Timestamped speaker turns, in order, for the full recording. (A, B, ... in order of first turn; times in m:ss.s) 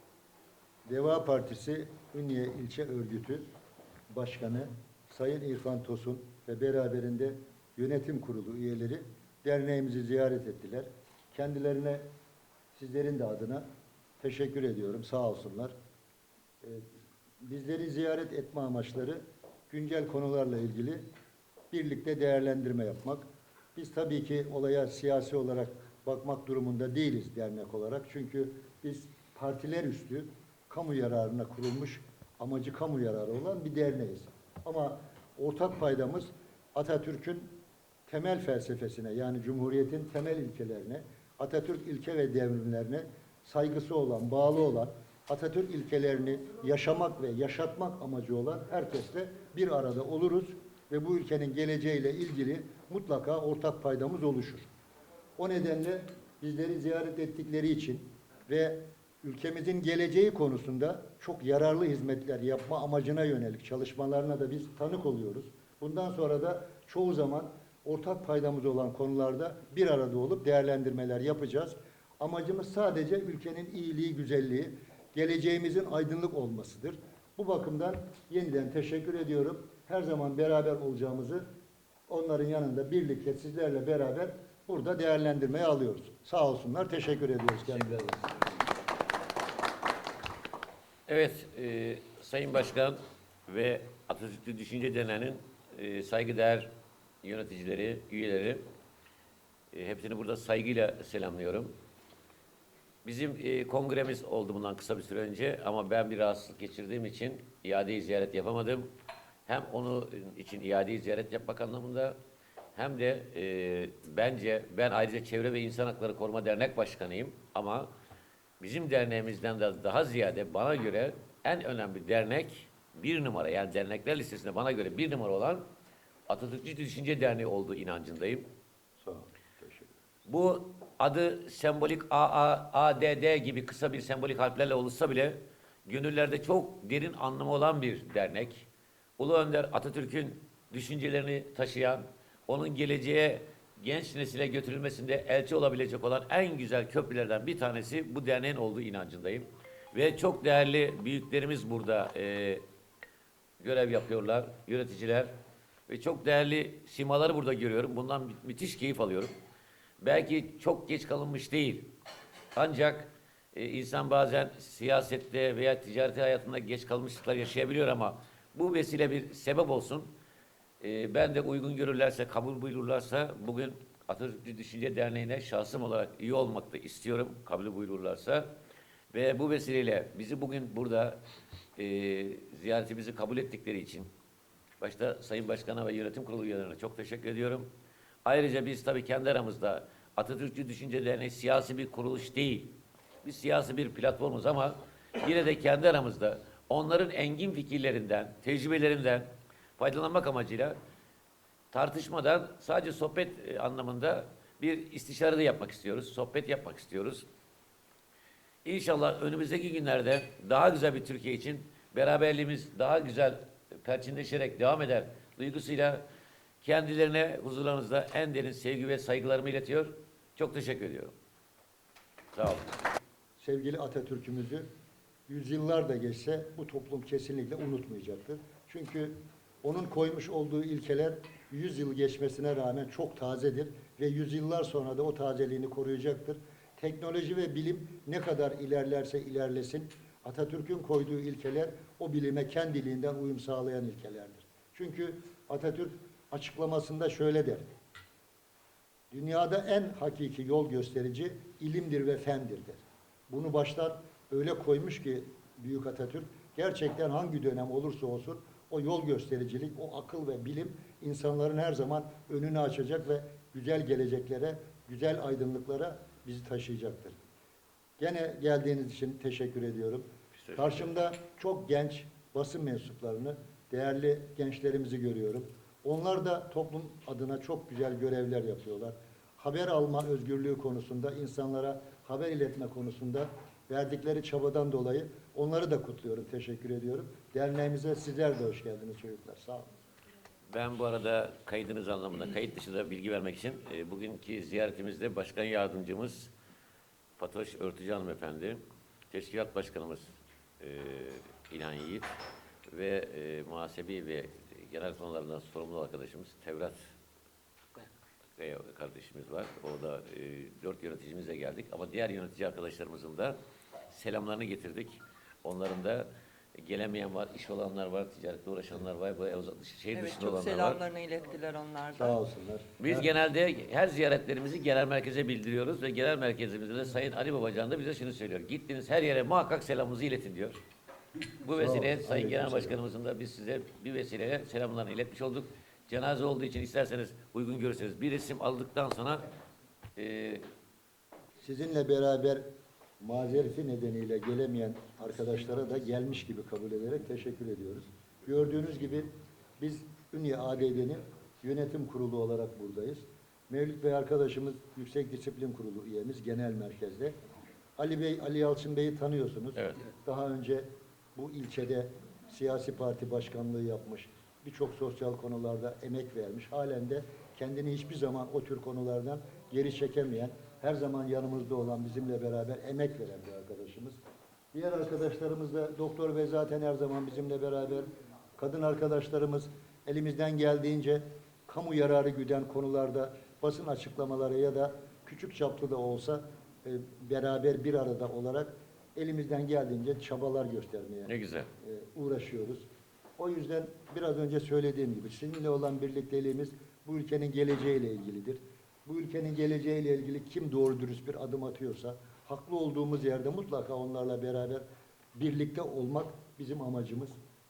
0:00.9-0:03.4 A
0:04.1-0:12.0 A
0:12.8-0:13.6 A
0:14.2-0:15.7 A
0:17.4-0:21.0 A
0:21.7-0:37.5 A
0:38.1-0:54.6 A
0:55.4-1:21.4 A
1:22.1-1:28.6 A
1:31.1-1:36.7 B
1:37.2-1:38.6 B
1:39.7-1:41.7 B
1:43.0-1:48.9 B
1:49.5-1:52.2 B
1:52.8-1:57.9 B
1:58.6-2:05.6 B
2:06.3-2:08.5 B
2:09.0-2:09.9 A
2:10.3-2:32.6 B
2:33.6-2:35.3 B
2:35.9-2:39.3 B
2:40.0-2:41.9 B
2:42.6-2:50.1 B
2:50.8-2:58.5 B
2:59.1-3:01.2 B
3:01.8-3:04.1 B
3:04.8-3:07.7 B
3:08.2-3:20.8 B
3:21.7-3:27.3 B
3:28.6-3:36.0 B
3:36.6-3:41.1 B
3:42.3-3:42.8 B
3:43.4-3:44.7 A
3:45.3-4:07.6 A
4:09.1-4:27.2 A
4:28.0-4:49.7 A
4:30.4-4:30.9 B
4:50.5-4:56.3 B
4:57.2-5:02.1 B
5:02.7-5:06.8 B
5:08.4-5:13.4 B
5:13.9-5:16.1 B
5:16.6-5:20.8 B
5:19.9-5:22.2 C
5:22.0-5:23.1 A
5:22.8-5:30.6 B
5:31.4-5:39.3 B
5:31.5-5:32.8 A
5:40.0-5:40.4 B
5:41.4-5:42.4 A
5:43.0-5:57.1 A
5:57.8-6:14.0 A
5:59.6-5:59.8 B
6:14.5-6:32.6 A
6:31.1-6:31.5 B
6:33.2-6:44.6 A
6:45.2-6:47.2 A